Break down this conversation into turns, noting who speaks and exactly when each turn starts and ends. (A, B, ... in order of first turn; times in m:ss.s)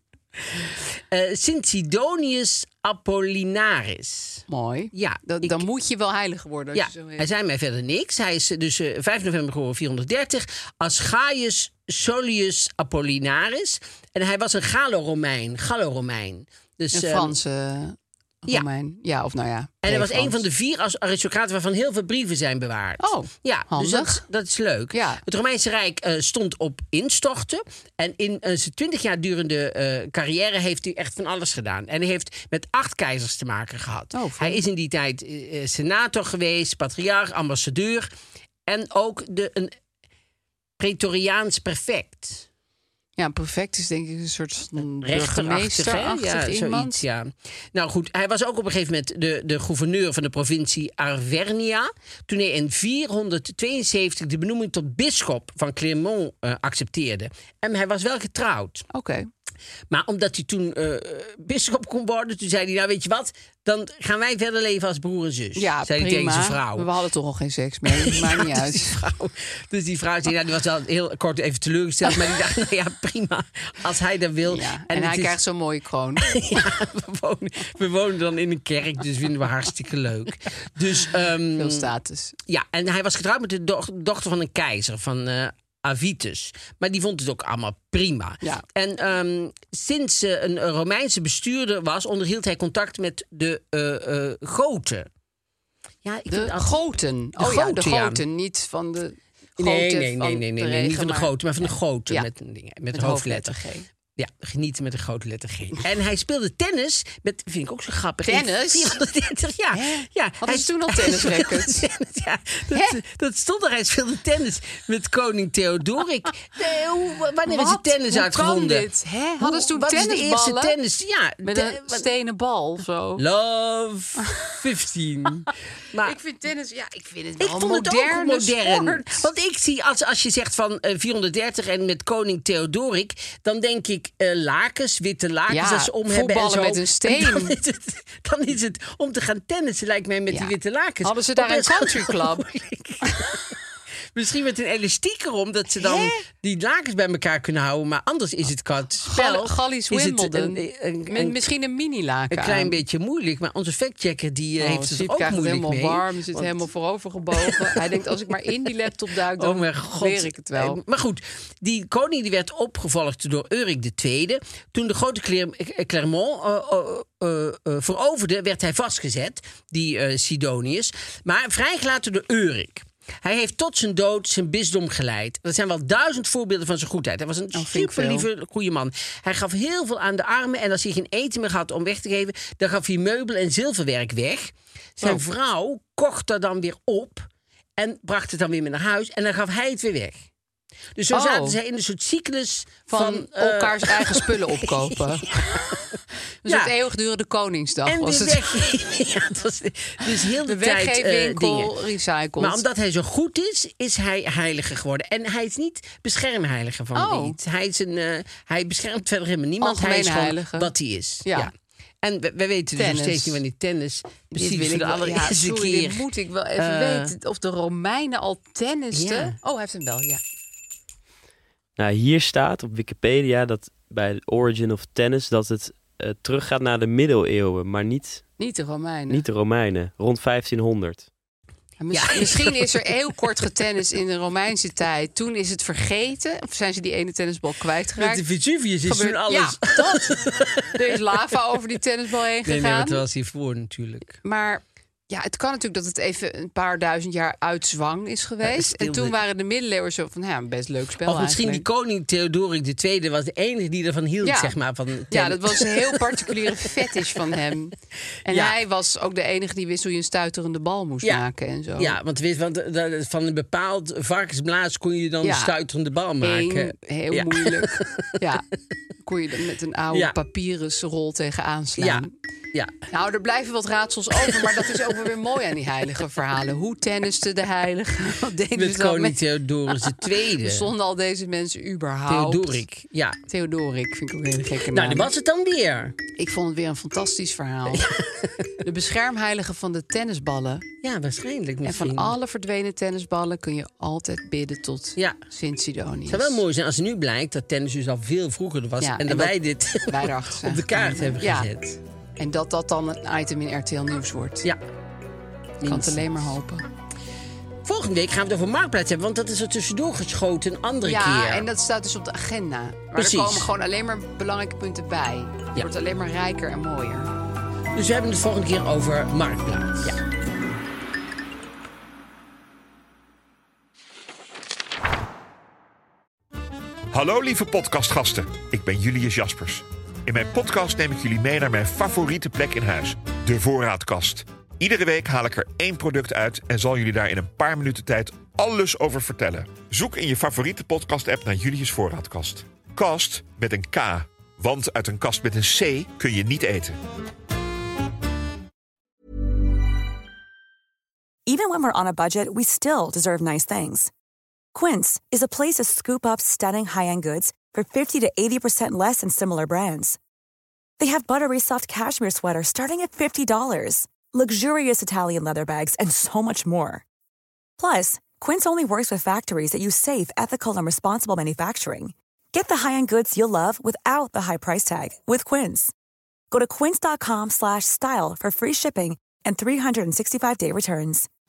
0:00.6-0:05.6 A
0:04.5-0:07.3 B
0:06.7-0:17.3 A
0:16.9-0:20.4 B
0:19.8-0:38.1 A
0:23.0-0:24.2 B
0:24.9-0:25.2 B
0:34.1-0:34.6 B
0:38.7-0:39.7 A
0:40.8-0:42.5 A
0:43.2-0:47.0 B
0:45.0-0:58.8 A
0:58.9-0:59.3 B
0:59.9-1:06.9 A
1:05.6-1:09.0 B
1:07.9-1:15.4 A
1:14.4-1:16.4 B
1:16.2-1:21.9 A
1:21.5-1:22.4 B
1:22.5-1:35.1 A
1:36.0-1:36.8 A
1:36.3-1:42.3 B
1:37.4-1:38.2 A
1:39.6-1:43.6 A
1:42.9-1:43.9 B
1:44.2-1:58.9 A
1:48.2-1:49.0 B
1:49.7-1:51.8 B
1:52.7-1:53.0 B
1:57.4-2:00.8 B
1:59.4-2:02.1 A
2:01.4-2:03.2 B
2:03.2-2:06.2 A
2:04.2-2:04.6 B
2:06.0-2:09.3 B
2:07.4-2:23.5 A
2:15.5-2:17.6 B
2:20.3-2:22.4 B
2:24.1-2:31.4 A
2:25.8-2:26.2 B
2:29.0-2:32.8 B
2:32.3-2:36.6 A
2:34.6-2:40.8 B
2:37.4-2:38.0 A
2:39.3-3:10.3 A
2:57.5-2:58.3 B
3:11.0-3:16.7 A
3:11.1-3:11.6 B
3:12.9-3:15.6 B
3:16.4-3:18.4 B
3:17.8-3:21.8 A
3:20.4-3:22.6 B
3:22.4-3:37.1 A
3:26.9-3:27.4 B
3:29.6-3:30.7 B
3:31.2-3:31.5 B
3:32.8-3:33.4 B
3:34.3-3:40.2 B
3:38.9-3:39.4 A
3:41.8-3:48.2 C
3:48.4-3:49.2 B
3:49.1-3:51.1 C
3:51.8-3:58.2 B
3:51.9-3:52.9 A
3:58.0-4:01.0 A
3:58.8-4:00.2 B
4:00.7-4:03.0 B
4:02.4-4:04.2 A
4:04.2-4:11.6 B
4:08.4-4:09.1 A
4:11.0-4:17.4 A
4:14.2-4:14.6 B
4:15.1-4:17.7 B
4:18.2-4:22.0 B
4:18.3-4:18.6 A
4:21.8-4:28.4 A
4:25.2-4:25.5 B
4:26.2-4:28.4 B
4:29.0-4:32.1 B
4:31.8-4:32.8 A
4:32.9-4:39.2 B
4:34.2-4:34.8 A
4:38.5-4:40.7 A
4:39.8-4:42.6 B
4:42.1-4:43.2 A
4:43.3-4:45.1 B
4:44.6-4:46.0 A
4:46.2-4:47.9 B
4:47.7-4:48.4 A
4:48.6-4:50.6 B
4:50.8-4:52.1 A
4:51.6-4:56.4 B
4:56.1-5:01.8 A
4:58.8-5:01.5 B
5:02.2-5:04.4 B
5:05.6-5:06.3 A
5:05.6-5:06.6 B
5:07.6-5:11.5 A
5:10.8-5:17.1 B
5:12.9-5:13.5 A
5:17.7-5:20.0 A
5:26.9-5:46.8 D
5:51.2-5:53.9 E
5:54.5-6:00.0 E
6:00.8-6:06.8 E
6:07.6-6:15.7 E
6:16.3-6:21.1 E